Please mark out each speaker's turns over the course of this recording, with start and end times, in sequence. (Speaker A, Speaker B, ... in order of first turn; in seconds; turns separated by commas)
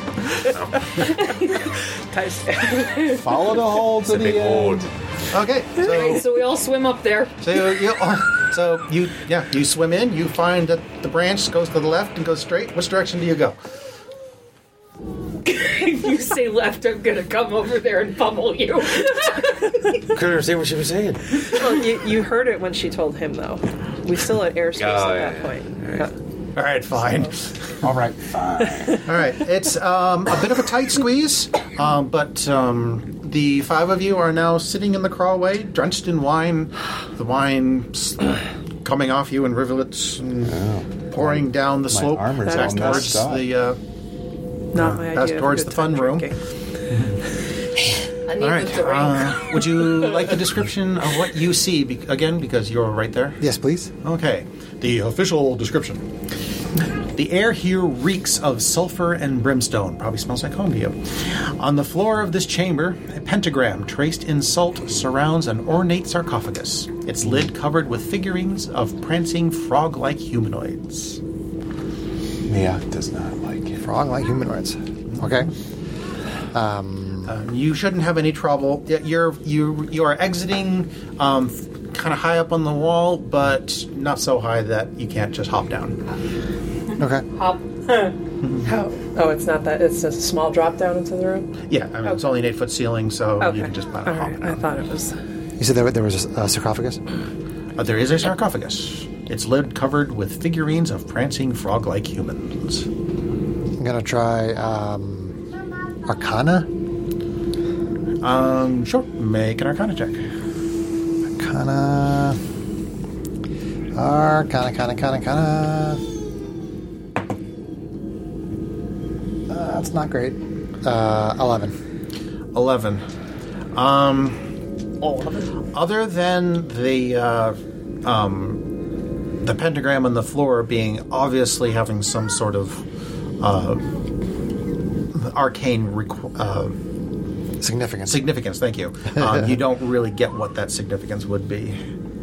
Speaker A: 0.5-1.1, Speaker B: 0.9-1.6, Speaker C: 1.0-3.1, Speaker B: 2.7-3.3, Speaker D: 3.1-4.9, Speaker A: 4.0-4.9, Speaker E: 5.3-6.3, Speaker B: 5.8-7.8, Speaker E: 7.4-13.6, Speaker B: 15.4-19.8, Speaker A: 20.0-21.5, Speaker C: 21.4-26.1, Speaker A: 24.8-26.1, Speaker E: 26.6-28.2, Speaker D: 28.6-28.9, Speaker E: 28.9-43.8, Speaker D: 40.4-43.5, Speaker C: 42.4-43.2, Speaker C: 44.7-46.4, Speaker E: 44.7-46.3, Speaker B: 48.3-49.8, Speaker E: 48.4-53.4, Speaker F: 53.4-53.9, Speaker E: 54.0-56.1, Speaker E: 57.1-71.2, Speaker D: 72.5-73.8, Speaker F: 73.8-75.5, Speaker E: 75.1-75.4, Speaker F: 76.5-77.3, Speaker E: 77.3-86.0, Speaker F: 87.0-87.2, Speaker B: 87.3-88.2, Speaker C: 88.6-91.5, Speaker E: 91.7-94.6, Speaker C: 93.4-95.2, Speaker F: 95.6-97.0, Speaker E: 97.8-102.9, Speaker F: 103.8-105.4, Speaker F: 106.1-106.7, Speaker E: 108.2-110.2, Speaker F: 111.4-112.4, Speaker F: 113.9-116.0, Speaker F: 119.5-121.8, Speaker E: 122.5-123.0, Speaker E: 123.7-124.4, Speaker B: 125.0-125.6, Speaker E: 125.7-128.6, Speaker E: 129.4-132.8, Speaker E: 133.4-133.9, Speaker E: 135.1-136.8, Speaker F: 137.6-138.2, Speaker E: 138.1-141.8